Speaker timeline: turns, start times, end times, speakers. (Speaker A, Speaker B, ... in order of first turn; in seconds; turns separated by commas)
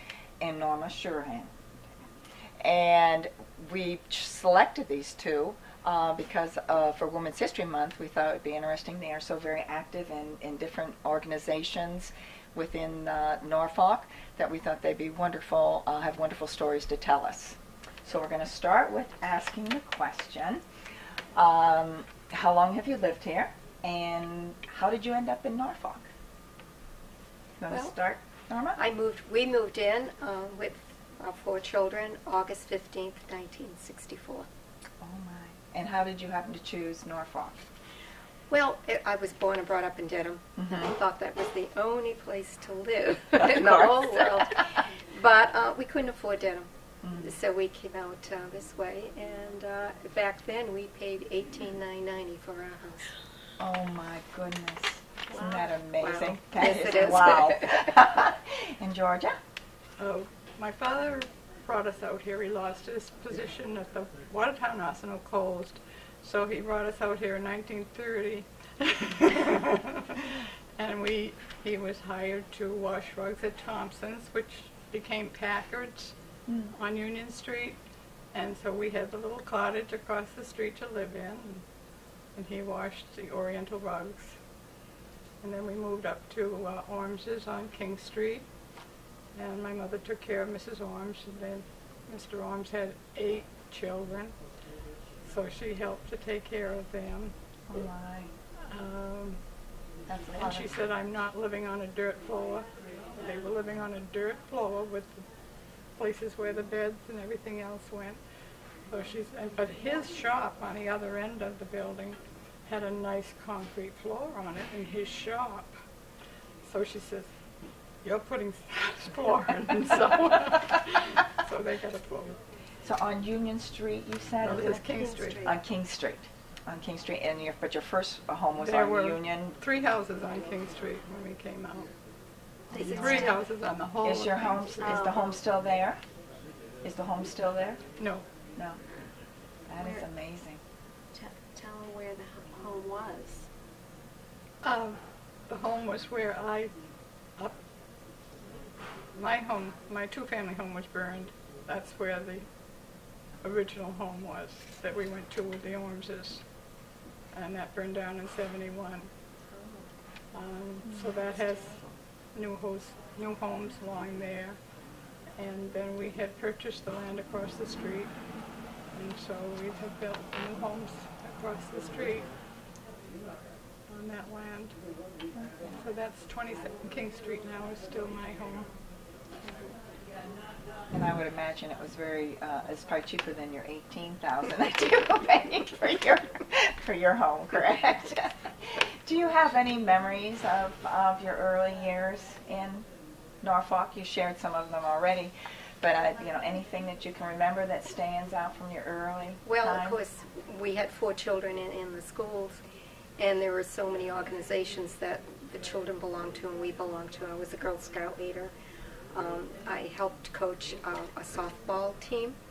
Speaker A: 0.4-1.6, Speaker A: 2.6-20.6, Speaker A: 21.3-26.1, Speaker A: 27.6-28.8, Speaker B: 27.7-27.9, Speaker B: 28.8-34.5, Speaker A: 35.0-37.7, Speaker B: 38.5-53.1, Speaker A: 40.6-40.9, Speaker A: 43.4-44.5, Speaker A: 47.0-47.4, Speaker A: 53.6-59.4, Speaker C: 55.3-55.7, Speaker B: 56.0-57.9, Speaker D: 60.0-76.1, Speaker A: 76.5-76.7, Speaker D: 76.8-77.8, Speaker D: 78.3-81.6, Speaker D: 82.3-84.3, Speaker D: 85.4-88.4, Speaker D: 89.3-94.3, Speaker D: 95.2-97.3, Speaker A: 97.7-98.3, Speaker D: 98.7-99.4, Speaker A: 100.1-100.7, Speaker D: 100.3-102.6, Speaker D: 103.2-105.2, Speaker D: 106.0-108.2, Speaker D: 108.9-115.7, Speaker D: 116.6-117.3, Speaker D: 118.0-122.3, Speaker A: 122.8-124.8, Speaker D: 124.4-125.5, Speaker C: 124.8-125.5, Speaker A: 125.4-129.6, Speaker D: 128.6-131.9, Speaker A: 132.7-133.3, Speaker C: 132.7-133.4, Speaker B: 132.7-133.3, Speaker D: 132.9-135.1, Speaker A: 134.0-136.0, Speaker C: 134.8-135.4, Speaker A: 136.8-137.8, Speaker D: 138.0-138.2, Speaker A: 139.7-140.6, Speaker C: 139.8-140.1, Speaker C: 141.1-143.5, Speaker D: 144.6-145.0, Speaker D: 145.5-146.7, Speaker D: 149.2-152.4, Speaker D: 153.4-156.4, Speaker D: 157.3-159.1, Speaker D: 160.3-161.8, Speaker A: 160.8-161.8, Speaker D: 162.3-164.6, Speaker D: 165.4-168.1, Speaker D: 168.9-172.3, Speaker D: 173.9-174.7, Speaker A: 175.3-175.8, Speaker D: 175.7-178.7, Speaker A: 180.9-192.9, Speaker A: 193.4-200.0, Speaker B: 199.4-202.6, Speaker B: 203.2-208.5, Speaker B: 209.1-212.4